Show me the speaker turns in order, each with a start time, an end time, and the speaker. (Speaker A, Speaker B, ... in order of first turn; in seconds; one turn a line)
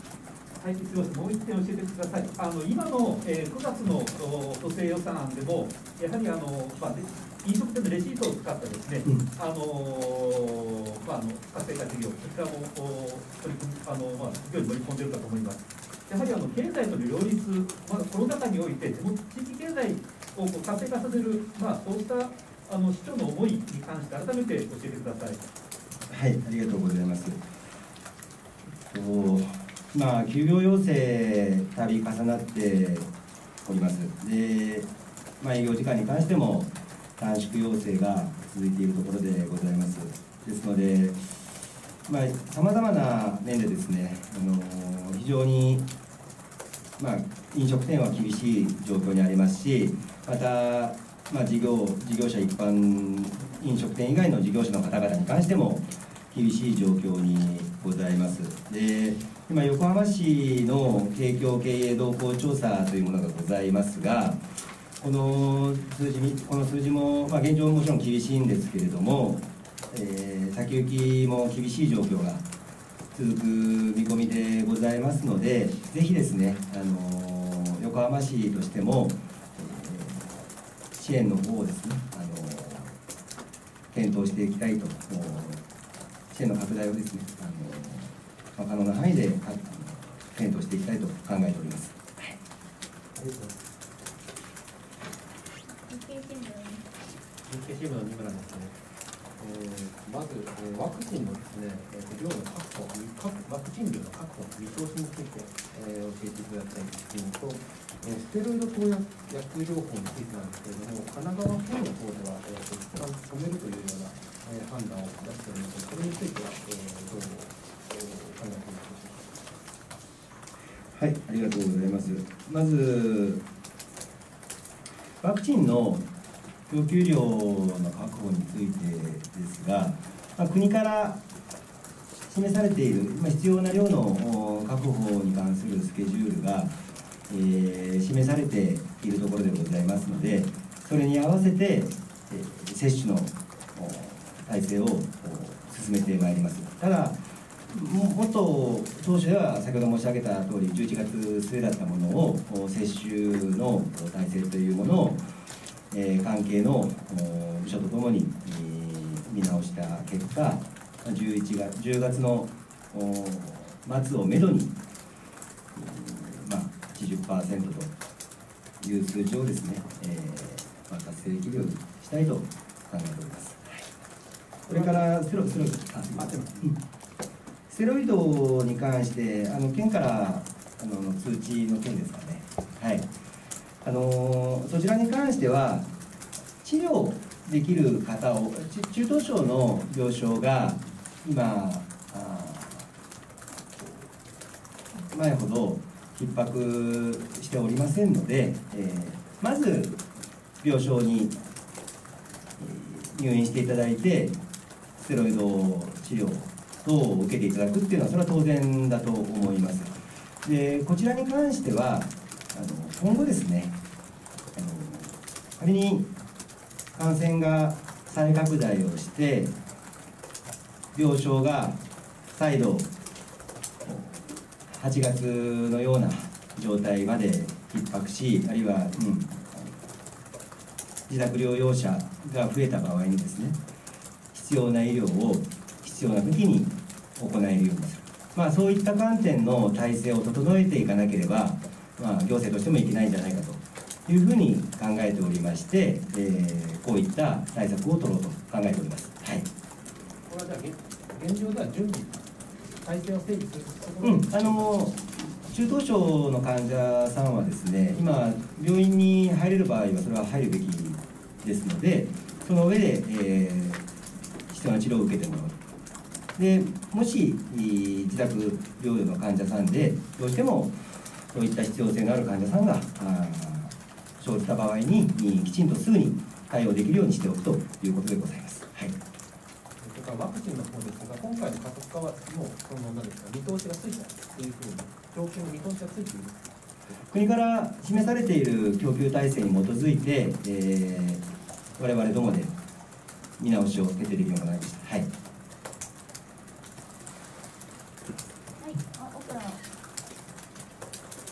Speaker A: 0.6-25.4
Speaker B: 26.1-27.4
Speaker B: 28.9-33.1
Speaker B: 33.6-34.9
Speaker B: 35.4-41.4
Speaker B: 42.1-45.9
Speaker B: 47.0-64.4
Speaker B: 65.0-72.4
Speaker B: 73.1-80.4
Speaker B: 81.0-83.0
Speaker B: 83.9-85.6
Speaker B: 86.3-92.3
Speaker C: 93.2-93.6
Speaker D: 95.7-96.8
Speaker C: 97.5-98.7
Speaker C: 99.4-119.3
Speaker B: 121.0-123.4
Speaker B: 125.2-126.1
Speaker B: 126.7-131.2
Speaker B: 132.3-136.8
Speaker B: 137.3-155.2
Speaker B: 155.9-164.7
Speaker B: 165.8-167.9
Speaker B: 168.8-173.9
Speaker B: 174.7-176.8
Speaker A: 174.7-175.0
Speaker A: 176.2-176.5
Speaker B: 177.7-183.1
Speaker B: 183.8-185.9
Speaker B: 186.6-192.9
Speaker B: 195.1-200.0
Speaker B: 200.6-201.4
Speaker B: 202.6-204.4
Speaker B: 205.0-209.9
Speaker B: 210.4-213.8
Speaker B: 214.6-216.1
Speaker B: 216.9-219.5
Speaker B: 220.9-221.8
Speaker B: 222.3-222.9
Speaker B: 223.8-229.7
Speaker B: 231.1-233.6
Speaker B: 234.3-249.5
Speaker C: 250.3-254.8
Speaker B: 254.0-263.8
Speaker B: 264.5-265.6
Speaker B: 266.4-270.8
Speaker B: 271.3-279.0
Speaker C: 279.8-286.9
Speaker B: 287.1-291.2
Speaker B: 291.8-292.5
Speaker B: 293.4-295.1
Speaker D: 298.6-299.6